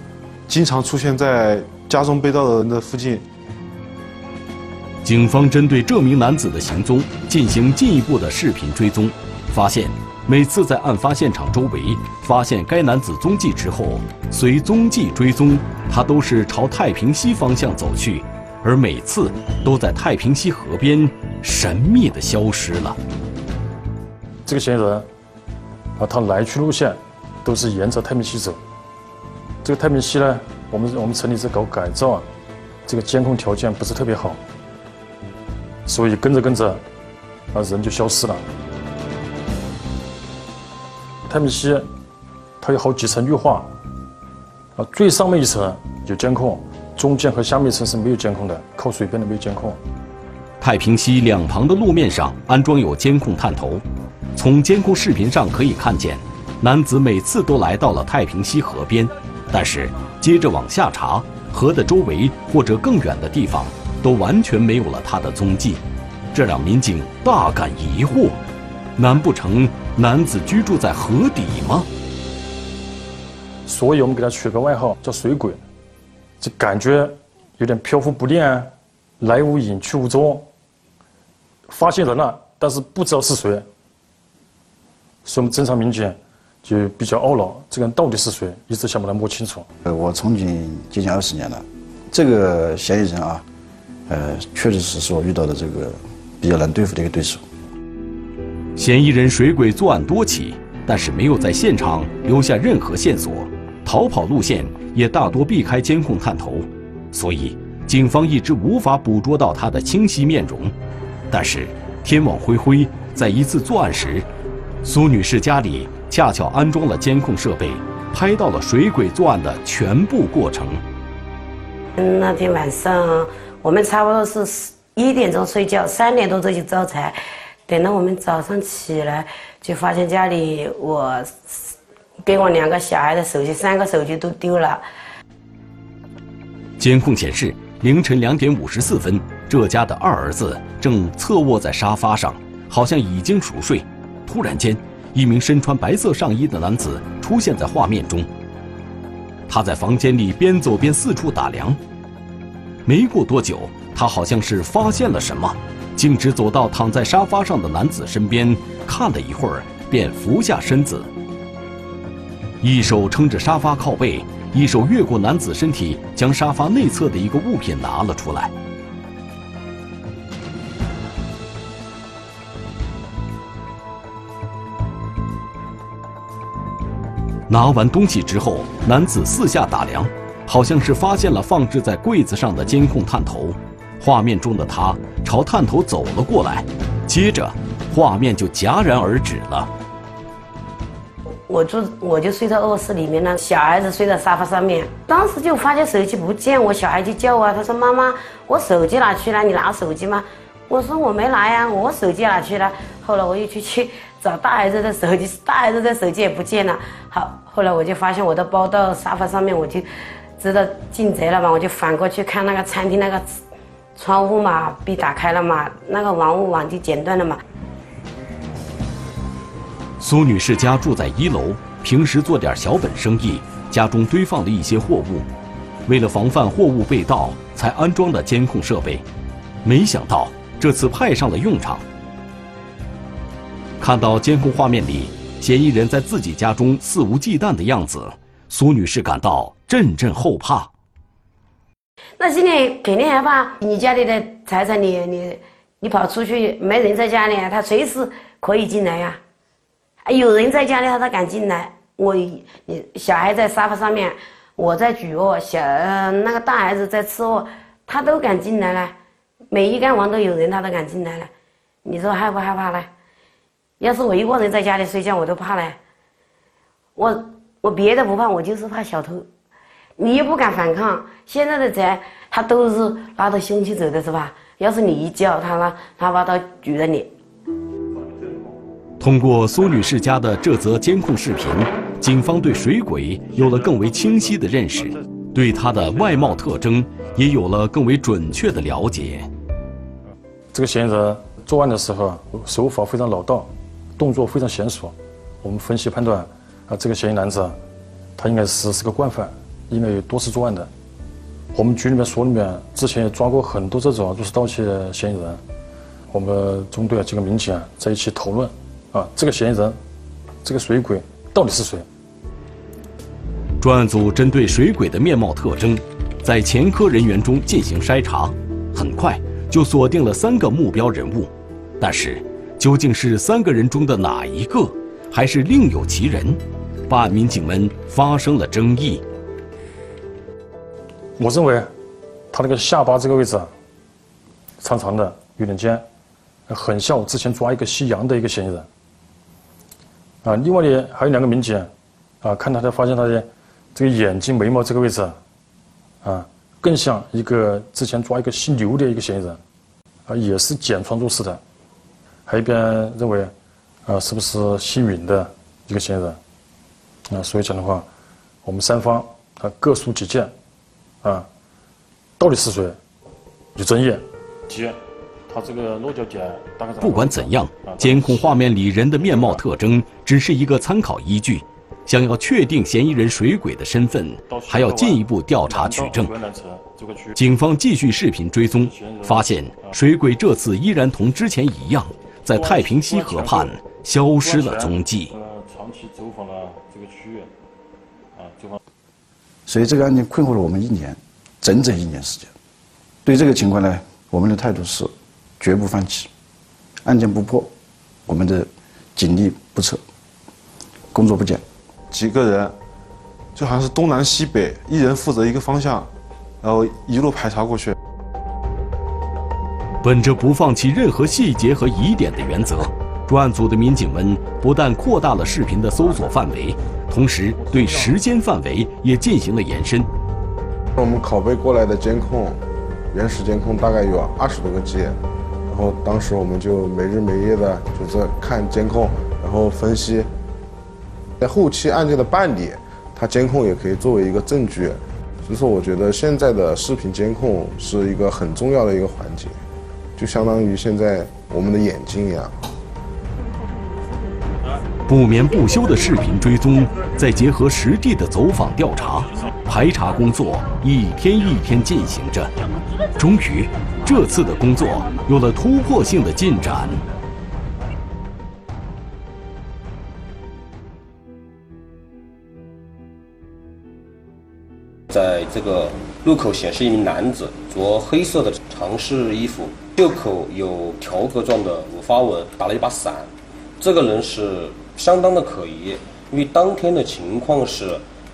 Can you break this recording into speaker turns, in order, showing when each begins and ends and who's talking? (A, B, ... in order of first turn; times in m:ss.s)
0:00.5-0:03.2 A
0:05.0-0:23.0 B
0:24.4-0:25.1 C
0:26.0-0:28.6 C
0:29.6-0:32.3 C
0:32.9-0:34.4 C
0:35.9-0:36.8 C
0:37.5-0:38.4 C
0:41.3-0:41.9 C
0:42.6-0:43.7 C
0:44.8-0:49.8 C
0:50.6-0:53.8 B
0:54.4-1:05.8 B
1:06.3-1:08.4 B
1:09.0-1:11.9 B
1:13.7-1:15.6 C
1:16.4-1:20.5 C
1:21.7-1:23.7 C
1:25.2-1:29.7 C
1:29.8-1:33.4 D
1:34.1-1:37.4 D
1:38.8-1:50.7 B
1:51.3-1:54.3 B
1:54.8-2:00.8 B
2:02.0-2:14.8 E
2:16.8-2:28.3 B
2:29.5-2:31.8 B
2:32.9-2:41.1 B
2:42.6-2:48.5 B
2:57.5-3:09.7 B
3:11.5-3:33.4 E
3:34.0-3:37.4 E
3:40.0-3:45.3 B
3:45.9-3:49.0 B
3:49.6-3:51.8 B
3:53.8-4:00.7 B
4:02.2-4:09.2 E
4:10.0-4:18.9 E
4:19.5-4:21.3 E
4:21.8-4:22.9 E
4:23.8-4:25.8 E
4:27.0-4:29.3 E
4:30.0-4:37.1 E
4:39.0-4:49.3 B
4:50.5-4:57.6 C
4:58.2-5:00.7 C
5:01.5-5:05.4 C
5:06.1-5:09.8 C
5:10.4-5:11.9 C
5:13.6-5:29.0 B
5:31.2-5:31.7 C
5:32.3-5:33.5 C
5:34.6-5:35.8 C
5:36.5-5:38.7 C
5:40.2-5:41.7 C
5:42.2-5:45.2 C
5:46.0-5:49.4 C
5:50.1-5:51.4 C
5:52.3-5:53.3 C
5:53.9-5:56.2 C
5:57.1-5:57.9 C
5:58.4-6:00.3 C
6:02.2-6:02.8 C
6:03.5-6:08.4 C
6:06.8-6:16.1 B
6:09.0-6:09.4 C
6:14.3-6:17.2 C
6:17.2-6:25.1 B
6:18.6-6:19.8 C
6:22.3-6:23.5 C
6:24.2-6:27.3 C
6:28.2-6:28.6 C
6:29.5-6:32.3 D
6:33.0-6:36.1 D
6:36.8-6:37.5 D
6:38.1-6:39.8 D
6:40.9-6:41.4 D
6:41.9-6:42.5 A
6:43.4-6:45.9 A
6:46.4-6:47.8 A
6:49.8-6:59.9 B
7:00.8-7:02.4 F
7:02.9-7:05.0 F
7:05.5-7:10.1 F
7:11.2-7:19.4 F
7:20.0-7:22.4 F
7:24.9-7:32.3 B
7:33.0-7:36.8 B
7:44.9-7:57.8 G